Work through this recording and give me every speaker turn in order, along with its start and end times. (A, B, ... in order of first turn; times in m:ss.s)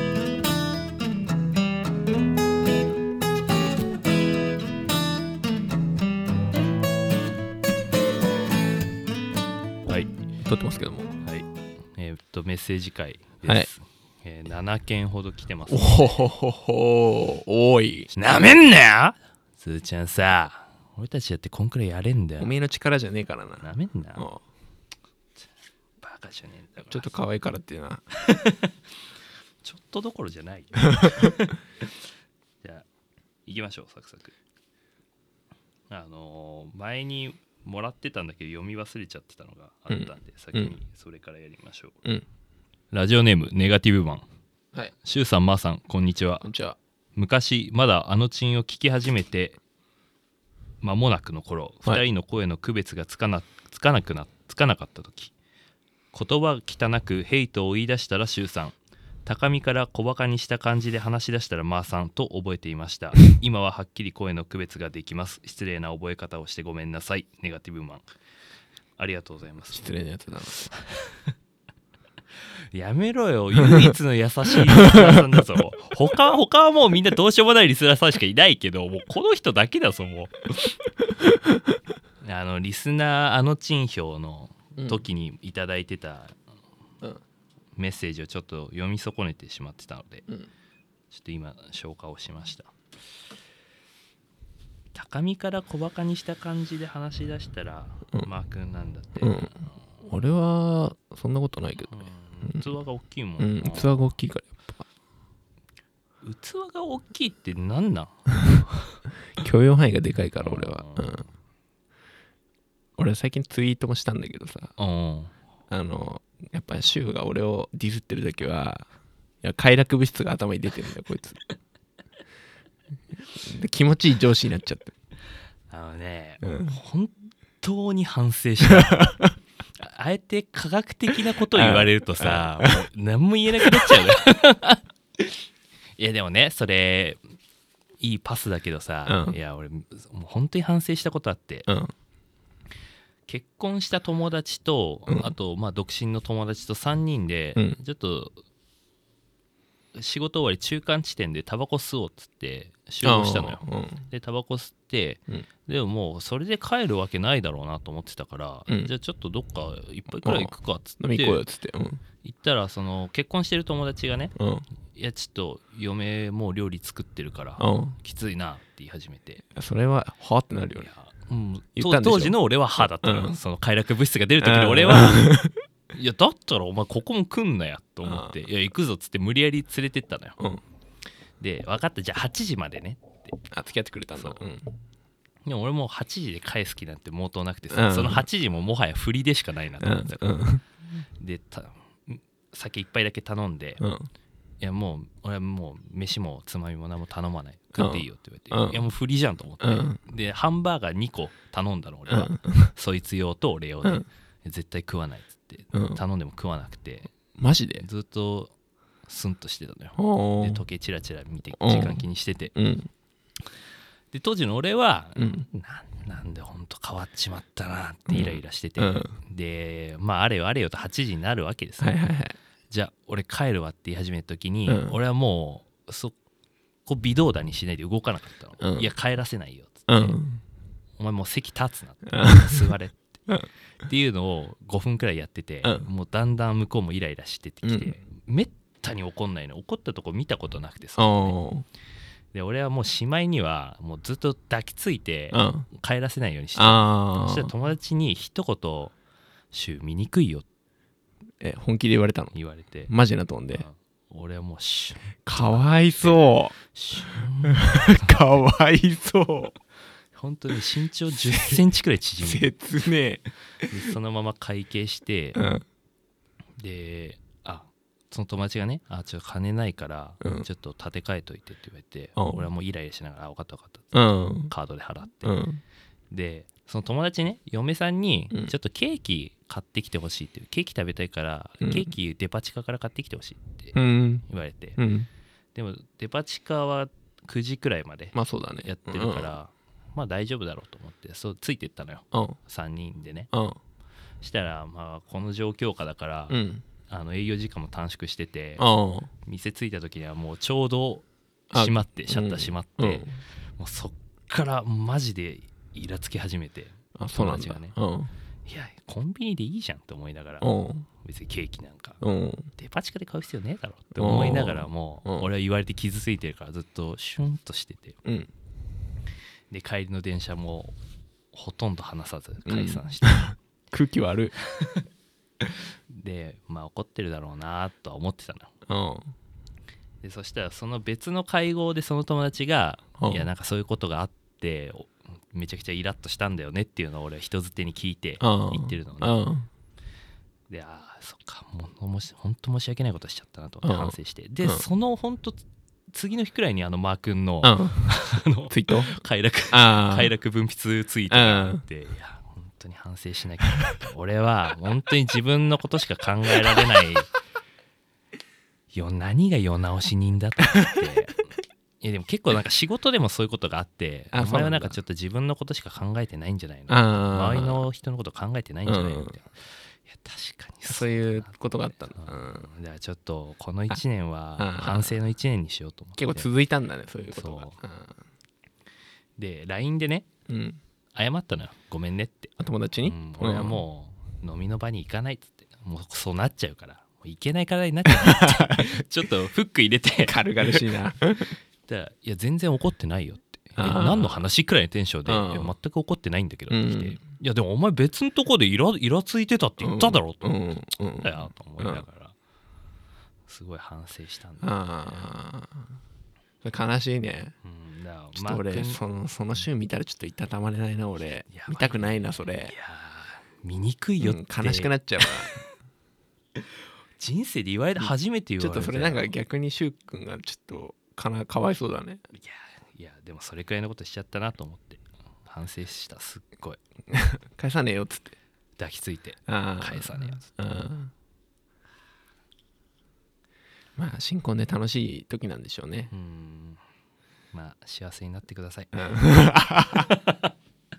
0:10.4-0:11.1 A
0:11.2-0:16.3 B
0:15.7-0:18.1 A
0:18.1-0:22.6 B
0:22.4-0:23.6 A
0:23.6-0:24.3 B
0:26.0-0:27.1 B
0:26.9-0:28.0 A
0:28.1-0:28.7 B
0:29.6-0:31.6 B
0:30.9-0:31.3 A
0:33.4-0:34.3 B
0:35.9-0:42.0 B
0:39.9-0:40.7 A
0:42.9-0:44.2 B
0:45.0-0:46.5 B
0:46.4-0:46.8 A
0:47.2-0:49.6 B
0:50.8-0:55.3 B
0:56.1-0:58.7 B
0:59.2-1:08.0 B
1:09.0-1:09.9 B
1:09.7-1:10.7 A
1:10.7-1:11.2 B
1:12.7-1:20.4 B
1:14.8-1:15.2 A
1:22.2-1:26.4 B
1:24.8-1:25.0 A
1:27.8-1:30.2 B
1:31.1-1:32.7 B
1:34.9-1:39.5 B
1:39.2-1:42.6 A
1:41.9-1:44.0 B
1:43.4-1:44.8 A
1:46.2-1:49.0 B
1:49.4-1:51.2 A
1:50.4-1:51.3 B
1:53.0-1:54.7 A
1:54.8-1:55.3 B
1:55.7-1:58.9 A
1:59.4-2:01.4 A
2:03.3-2:04.9 A
2:05.7-2:09.2 B
2:06.4-2:06.7 A
2:08.7-2:09.3 A
2:09.8-2:15.4 B
2:11.5-2:12.8 A
2:13.7-2:14.0 A
2:16.0-2:17.2 B
2:18.0-2:21.7 B
2:19.1-2:19.4 A
2:21.7-2:21.9 A
2:23.3-2:28.4 B
2:29.9-2:41.4 B
2:33.0-2:34.0 A
2:40.2-2:42.0 A
2:42.2-2:44.3 B
2:44.4-2:44.6 A
2:44.9-2:49.4 B
2:47.6-2:48.0 A
2:49.5-2:50.9 A
2:50.8-2:55.3 B
2:51.8-2:53.4 A
2:54.4-2:55.5 A
2:55.9-3:00.4 B
2:58.0-2:58.3 A
3:01.4-3:03.4 B
3:03.5-3:04.7 A
3:04.2-3:04.4 B
3:05.4-3:10.4 B
3:07.7-3:08.2 A
3:09.8-3:10.6 A
3:11.2-3:13.8 B
3:13.8-3:14.1 A
3:14.6-3:27.1 B
3:17.8-3:18.8 A
3:19.6-3:20.0 A
3:22.1-3:22.7 A
3:25.7-3:26.0 A
3:27.4-3:27.8 A
3:27.8-3:28.5 B
3:29.0-3:32.5 B
3:30.0-3:30.6 A
3:31.6-3:32.0 A
3:32.5-3:32.9 A
3:34.1-3:42.0 B
3:35.2-3:35.4 A
3:38.1-3:39.1 A
3:41.8-3:42.3 A
3:42.7-3:46.1 B
3:44.7-3:45.0 A
3:46.8-3:50.2 B
3:48.6-3:48.9 A
3:49.9-3:50.4 A
3:51.0-3:53.2 B
3:52.1-3:52.6 A
3:53.8-4:01.4 B
3:57.6-3:57.9 A
4:01.0-4:01.6 A
4:02.3-4:08.9 B
4:05.3-4:05.7 A
4:06.6-4:07.5 A
4:09.5-4:10.4 B
4:11.4-4:12.3 A
4:12.3-4:12.9 B
4:12.9-4:13.6 A
4:13.5-4:18.2 B
4:15.2-4:16.6 A
4:17.4-4:19.6 A
4:20.1-4:22.5 B
4:21.3-4:21.6 A
4:22.2-4:23.7 A
4:23.7-4:25.4 B
4:25.4-4:25.6 A
4:26.6-4:35.4 B
4:32.2-4:32.4 A
4:33.9-4:34.5 A
4:35.2-4:35.6 A
4:36.1-4:43.8 B
4:41.6-4:41.9 A
4:43.7-4:44.2 A
4:44.3-4:44.8 B
4:44.8-4:45.1 A
4:45.5-4:53.3 B
4:48.1-4:49.3 A
4:52.1-4:52.4 A
4:53.3-4:53.6 A
4:54.2-4:58.6 B
4:56.3-4:56.6 A
4:58.6-4:59.1 A
4:59.2-5:07.8 B
5:01.5-5:03.2 A
5:07.0-5:08.1 A
5:08.4-5:10.5 B
5:10.4-5:10.8 A
5:11.0-5:12.0 B
5:12.0-5:12.5 A
5:12.6-5:18.0 B
5:14.0-5:15.3 A
5:18.0-5:18.3 A
5:19.5-5:20.7 B
5:21.3-5:23.3 B
5:22.4-5:24.3 A
5:24.4-5:24.8 B
5:25.9-5:28.5 B
5:28.7-5:29.1 A
5:30.0-5:39.2 B
5:33.0-5:33.3 A
5:38.2-5:39.5 A
5:40.5-5:57.1 B
5:43.6-5:44.6 A
5:47.4-5:47.9 A
5:48.5-5:48.9 A
5:49.5-5:50.1 A
5:51.1-5:51.6 A
5:58.7-6:01.2 B
6:01.8-6:11.4 B
6:04.1-6:04.8 A
6:06.7-6:07.6 A
6:08.7-6:09.1 A
6:10.7-6:12.5 A
6:12.0-6:16.3 B
6:14.4-6:14.9 A
6:16.0-6:18.0 A
6:17.1-6:17.6 B
6:19.2-6:20.1 B
6:20.3-6:20.6 A
6:20.9-6:30.6 B
6:22.4-6:23.6 A
6:27.9-6:28.8 A
6:30.0-6:31.3 A
6:31.7-6:40.3 B
6:33.6-6:34.2 A
6:35.0-6:35.5 A
6:36.5-6:37.0 A
6:39.6-6:41.8 A
6:41.0-6:42.1 B
6:43.3-6:45.1 B
6:44.4-6:45.7 A
6:46.4-6:47.3 A
6:47.4-6:48.8 B
6:48.1-6:52.5 A
6:51.3-6:55.3 B
6:54.0-6:55.4 A
6:57.0-6:59.1 B
6:57.8-7:02.0 A
7:02.1-7:06.6 B
7:06.9-7:08.2 A
7:08.6-7:10.4 B
7:09.3-7:10.9 A
7:13.8-7:15.9 A
7:15.9-7:16.6 B
7:17.3-7:18.9 B
7:18.7-7:19.9 A
7:19.7-7:20.3 B